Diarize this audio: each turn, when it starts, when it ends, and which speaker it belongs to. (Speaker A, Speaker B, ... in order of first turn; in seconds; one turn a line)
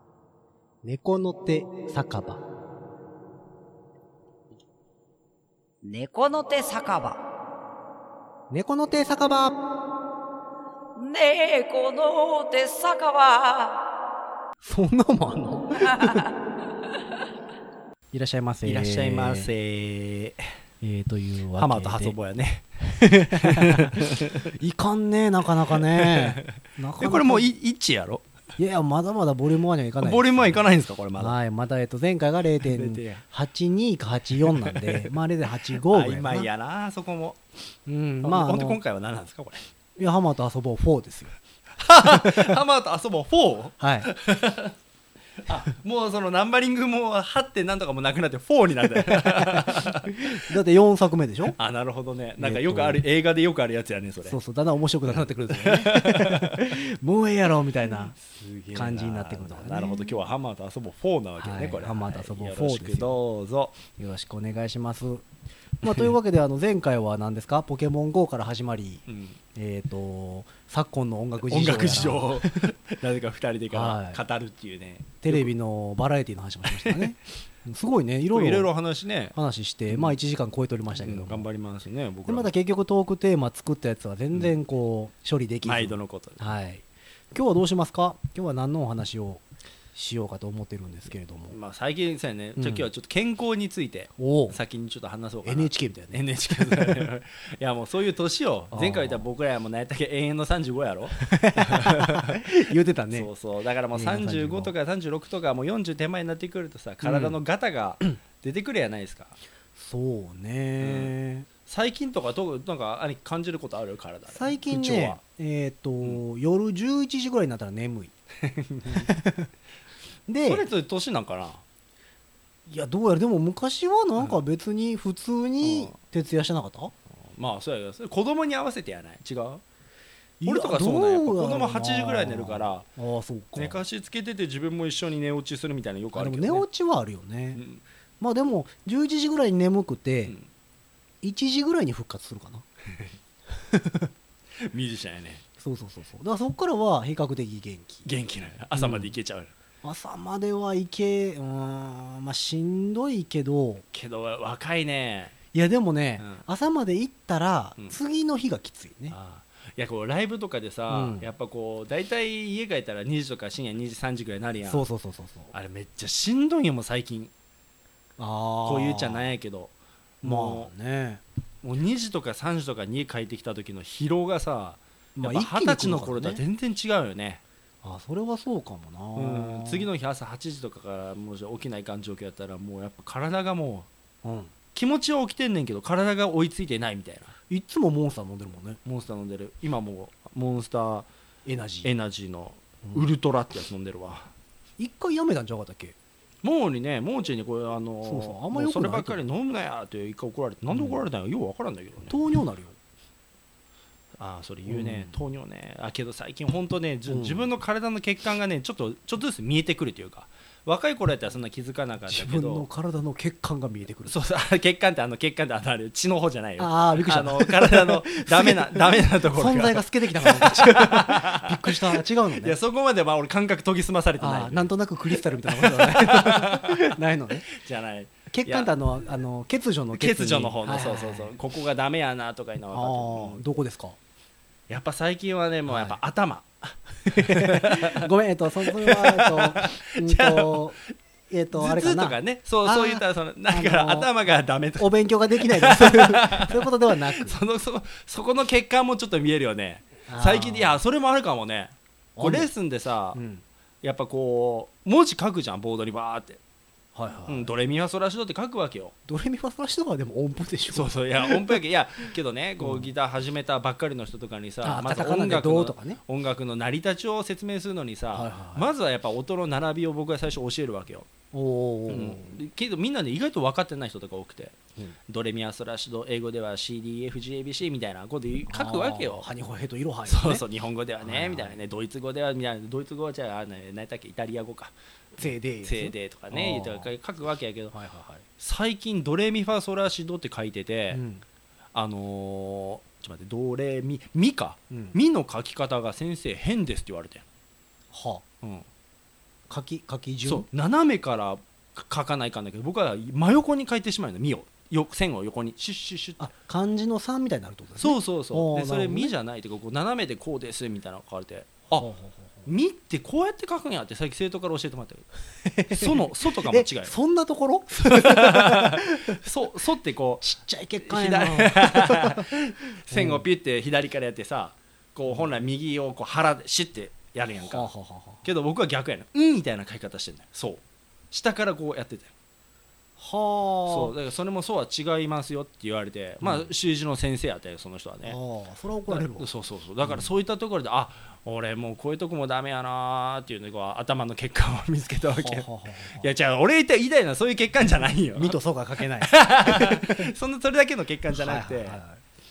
Speaker A: 0.8-2.4
Speaker B: 5.8-7.2
Speaker A: 8.5-9.6
Speaker B: 10.9-13.8
Speaker A: 14.6-16.2
Speaker B: 15.9-16.2
Speaker A: 18.1-19.5
Speaker C: 18.6-20.4
Speaker A: 20.8-22.1
Speaker C: 21.6-24.4
Speaker A: 22.8-27.5
Speaker C: 25.7-28.2
Speaker A: 28.6-30.6
Speaker C: 30.0-31.4
Speaker A: 31.2-36.5
Speaker C: 32.6-33.2
Speaker C: 34.3-35.1
Speaker C: 35.7-37.4
Speaker A: 37.9-38.8
Speaker C: 38.2-39.6
Speaker A: 40.0-41.4
Speaker C: 41.8-44.8
Speaker A: 42.0-42.5
Speaker A: 43.8-44.1
Speaker C: 45.4-50.5
Speaker A: 49.1-51.6
Speaker C: 51.5-54.4
Speaker A: 52.4-53.0
Speaker A: 54.2-58.2
Speaker C: 55.5-56.8
Speaker C: 57.9-63.8
Speaker A: 58.7-60.2
Speaker A: 61.4-63.1
Speaker A: 64.0-65.2
Speaker A: 65.8-72.7
Speaker C: 65.8-66.1
Speaker C: 69.1-69.4
Speaker C: 71.5-75.5
Speaker A: 73.7-74.2
Speaker A: 75.2-78.7
Speaker C: 76.7-77.1
Speaker C: 78.3-79.3
Speaker A: 79.3-81.5
Speaker C: 79.9-80.2
Speaker C: 80.9-82.5
Speaker A: 82.2-91.6
Speaker C: 85.6-86.4
Speaker C: 91.5-102.4
Speaker A: 92.6-92.9
Speaker A: 94.2-94.6
Speaker A: 95.4-97.1
Speaker A: 98.7-99.3
Speaker A: 101.2-103.3
Speaker C: 103.1-109.3
Speaker A: 103.9-104.7
Speaker A: 107.0-107.4
Speaker A: 109.8-111.5
Speaker C: 110.8-111.1
Speaker C: 111.7-115.2
Speaker A: 114.3-118.1
Speaker C: 118.4-119.1
Speaker A: 118.8-119.5
Speaker A: 120.3-120.7
Speaker C: 120.5-121.6
Speaker A: 122.7-126.9
Speaker C: 125.6-125.9
Speaker C: 127.2-129.6
Speaker A: 130.4-133.8
Speaker C: 130.4-132.8
Speaker C: 133.6-136.7
Speaker A: 136.1-137.6
Speaker C: 137.6-137.8
Speaker A: 138.2-140.4
Speaker A: 141.2-142.7
Speaker A: 143.6-144.1
Speaker C: 144.6-145.4
Speaker A: 145.6-148.1
Speaker C: 148.0-149.5
Speaker A: 148.8-149.1
Speaker A: 149.8-153.8
Speaker C: 153.9-155.3
Speaker A: 155.5-159.2
Speaker C: 159.1-164.8
Speaker A: 160.9-161.3
Speaker A: 164.7-165.5
Speaker C: 165.5-167.3
Speaker A: 168.2-169.3
Speaker C: 168.6-170.7
Speaker A: 170.2-171.2
Speaker C: 171.6-177.4
Speaker A: 175.1-176.4
Speaker A: 177.8-179.9
Speaker C: 179.2-183.9
Speaker A: 184.2-184.5
Speaker C: 184.7-187.3
Speaker A: 187.5-188.8
Speaker C: 188.8-191.1
Speaker A: 191.4-191.9
Speaker C: 191.8-194.3
Speaker A: 194.8-195.9
Speaker C: 196.4-202.2
Speaker A: 198.0-199.2
Speaker A: 200.7-201.0
Speaker A: 202.1-202.8
Speaker C: 204.2-212.6
Speaker A: 204.7-205.2
Speaker A: 207.1-207.5
Speaker A: 212.1-214.2
Speaker C: 214.1-226.9
Speaker A: 216.6-222.6
Speaker A: 224.2-227.5
Speaker C: 227.5-228.7
Speaker A: 228.3-231.3
Speaker C: 229.9-233.4
Speaker A: 232.7-234.0
Speaker C: 234.7-236.4
Speaker A: 235.7-236.0
Speaker A: 237.0-240.8
Speaker C: 237.1-238.0
Speaker C: 238.6-240.7
Speaker A: 241.3-244.1
Speaker C: 241.5-253.2
Speaker A: 244.8-247.4
Speaker A: 250.1-250.8
Speaker A: 252.2-252.5
Speaker A: 253.1-253.4
Speaker C: 253.8-256.4
Speaker A: 256.9-257.5
Speaker C: 257.3-258.9
Speaker A: 259.1-261.6
Speaker C: 260.7-271.1
Speaker A: 262.6-262.9
Speaker A: 264.6-266.0
Speaker A: 268.1-268.7
Speaker A: 271.3-272.4
Speaker C: 271.9-274.6
Speaker C: 275.1-279.3
Speaker A: 278.5-280.4
Speaker C: 280.1-287.7
Speaker A: 281.0-281.6
Speaker A: 285.2-286.9
Speaker A: 287.7-288.2
Speaker C: 288.4-291.0
Speaker A: 290.9-291.2
Speaker C: 291.7-297.2
Speaker A: 294.7-294.9
Speaker A: 297.9-298.2
Speaker A: 299.5-300.5
Speaker C: 300.2-306.3
Speaker A: 306.2-309.1
Speaker C: 307.8-311.9
Speaker A: 311.7-312.5
Speaker C: 312.4-315.1
Speaker A: 315.4-319.2
Speaker C: 315.7-316.9
Speaker C: 317.8-320.2
Speaker A: 320.2-322.3
Speaker C: 320.8-327.7
Speaker A: 322.9-323.3
Speaker A: 327.4-328.2
Speaker C: 328.2-332.1
Speaker A: 333.0-333.9
Speaker C: 333.6-338.1
Speaker A: 336.2-336.5
Speaker A: 338.0-339.3
Speaker C: 338.9-348.4
Speaker A: 339.8-340.1
Speaker A: 345.1-346.1
Speaker A: 348.1-350.1
Speaker C: 349.0-351.8
Speaker A: 351.1-352.0